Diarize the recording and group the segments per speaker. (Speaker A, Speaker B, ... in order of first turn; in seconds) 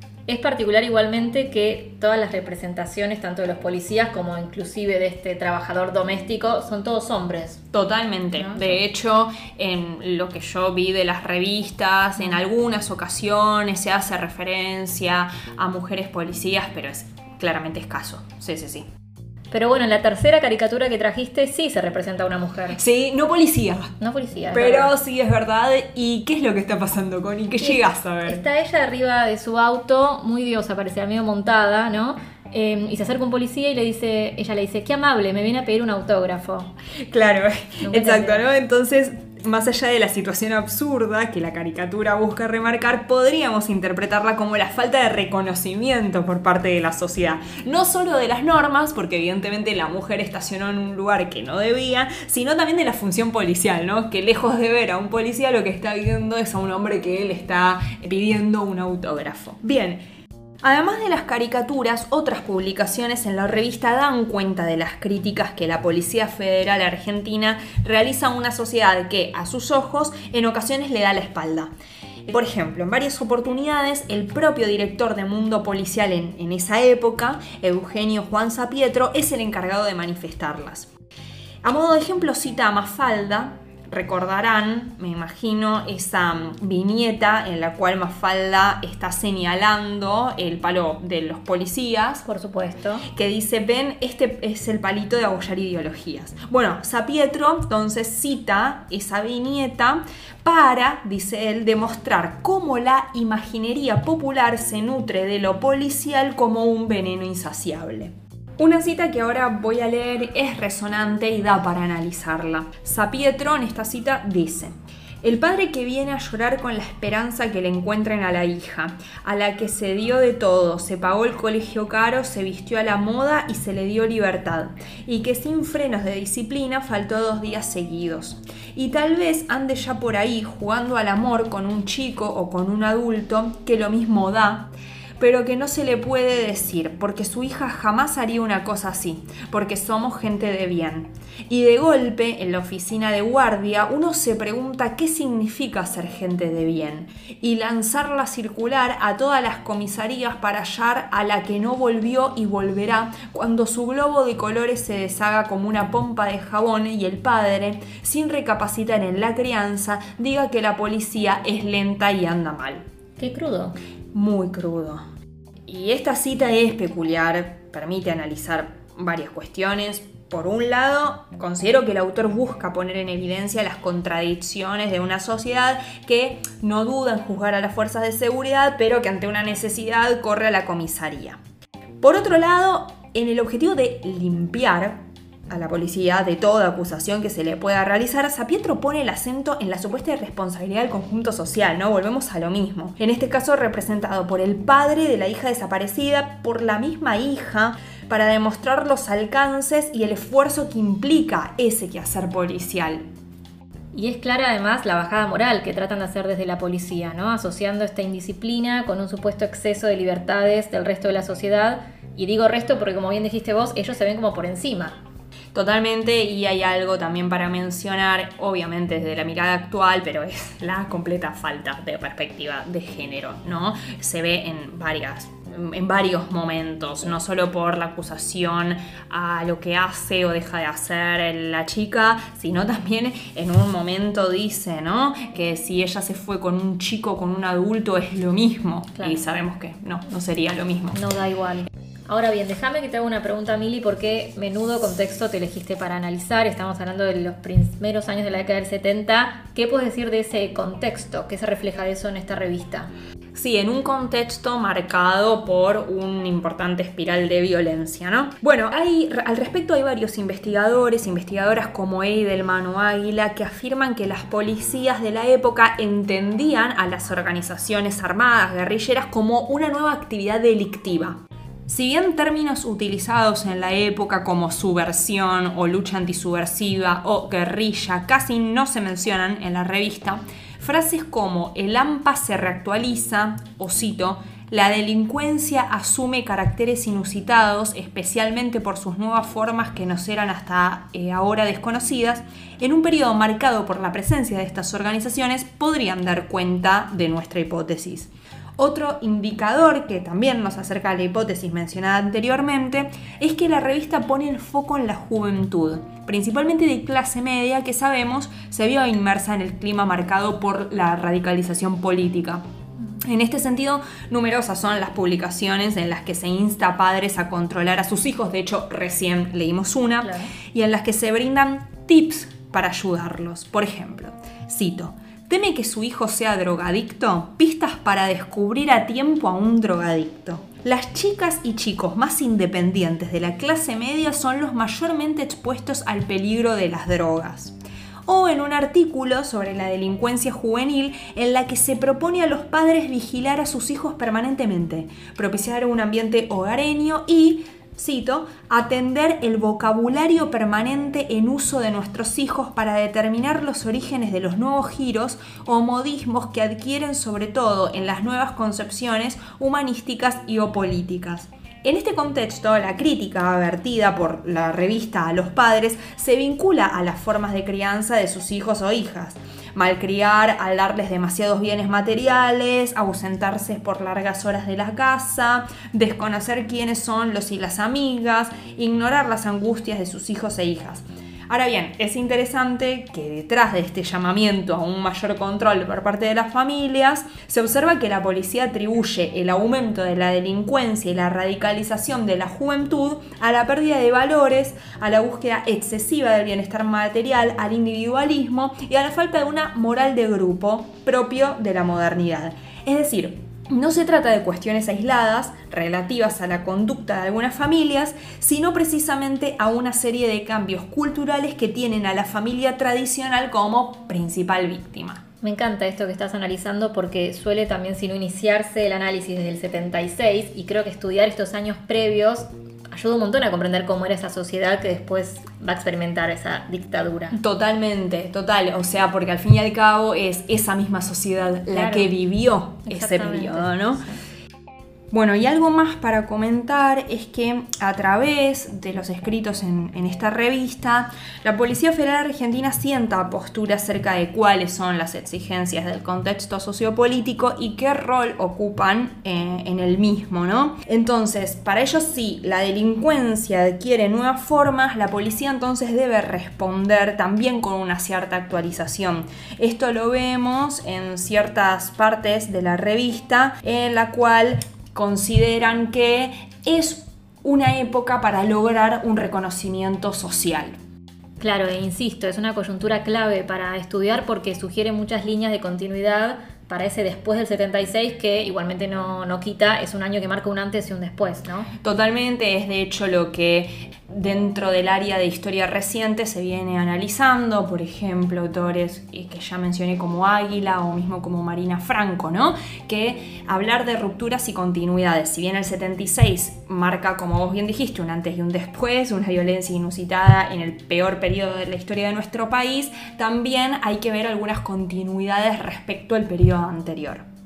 Speaker A: 0.3-7.6, 8.4-8.8, 19.5-22.8, 24.0-24.9, 27.6-36.7, 37.8-38.5, 92.3-93.1, 163.2-163.8, 203.9-215.0, 240.9-252.9, 320.0-320.3, 415.2-427.2, 431.5-431.9, 432.7-434.0, 471.2-481.5
Speaker B: 7.7-18.9, 22.8-23.9, 24.5-28.4, 37.1-60.0, 60.6-71.7, 72.3-80.9, 81.6-92.3, 93.1-162.8, 164.1-165.0, 165.7-181.4, 182.0-203.0, 215.5-241.0, 253.3-312.4, 313.0-415.0, 427.1-433.8, 434.9-470.6, 481.6-507.0